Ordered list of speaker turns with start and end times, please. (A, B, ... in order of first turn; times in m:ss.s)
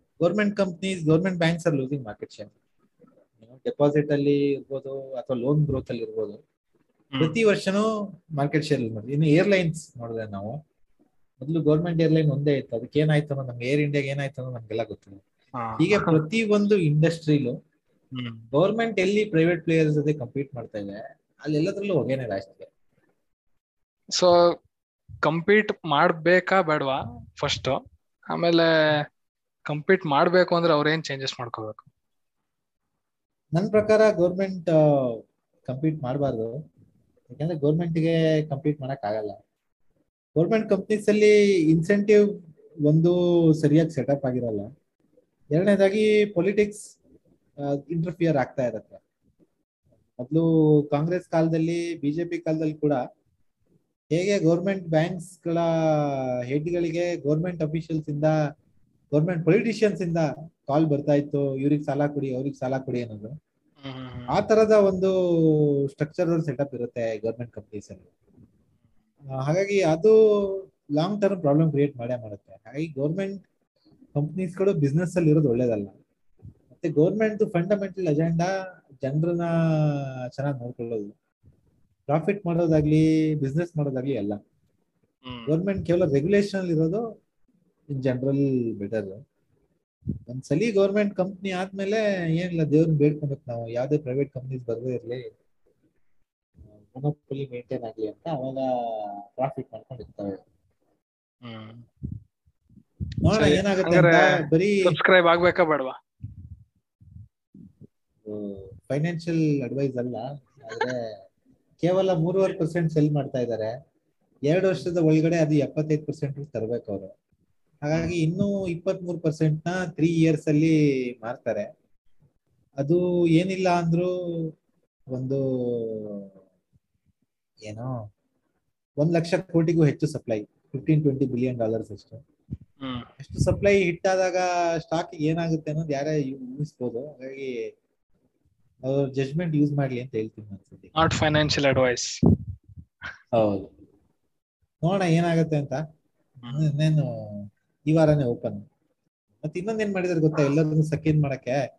0:00.2-0:02.5 A
0:03.4-0:06.4 A
0:07.2-0:07.8 A
0:08.4-0:10.6 A
0:11.4-0:15.2 A
0:15.6-0:16.2 B
0:15.8-0:17.6 A
0:18.1-0:18.4 B
0:18.5-0:22.7 A
0:25.2-0:27.8 B
0:28.3-0:28.7 B
0:29.7-0:31.9 B
0:33.5-0:36.5 A
0:37.3-0:39.4 A
0:40.4-0:42.2 A
0:42.9-0:44.7 A
0:45.5-0:46.9 A
0:47.7-0:49.0 A
0:50.2-0:53.0 A
0:54.1-0:58.3 A
0:59.1-1:03.3 A
1:03.8-1:04.3 B
1:04.3-1:08.1 A
1:09.4-1:10.1 A
1:11.0-1:13.4 A
1:14.1-1:15.9 A
1:16.7-1:18.5 A
1:19.0-1:21.1 A
1:22.1-1:24.4 A
1:25.2-1:25.5 B
1:25.5-1:27.0 A
1:28.0-1:29.2 A
1:30.3-1:35.2 A
1:36.9-1:40.4 A
1:41.4-1:41.8 B
1:43.2-1:44.8 A
1:43.3-1:44.3 B
1:44.8-1:45.9 B
1:48.2-1:51.0 A
1:51.8-1:53.7 A
1:54.5-1:57.1 A
1:57.8-2:01.6 A
2:02.8-2:04.1 A
2:05.1-2:06.3 A
2:07.6-2:07.9 A
2:09.0-2:12.2 A
2:12.8-2:13.1 B
2:13.2-2:17.5 A
2:18.8-2:20.9 A
2:20.9-2:22.1 B
2:23.3-2:23.7 A
2:24.8-2:25.8 A
2:26.4-2:26.7 B
2:26.5-2:28.6 A
2:29.4-2:31.6 A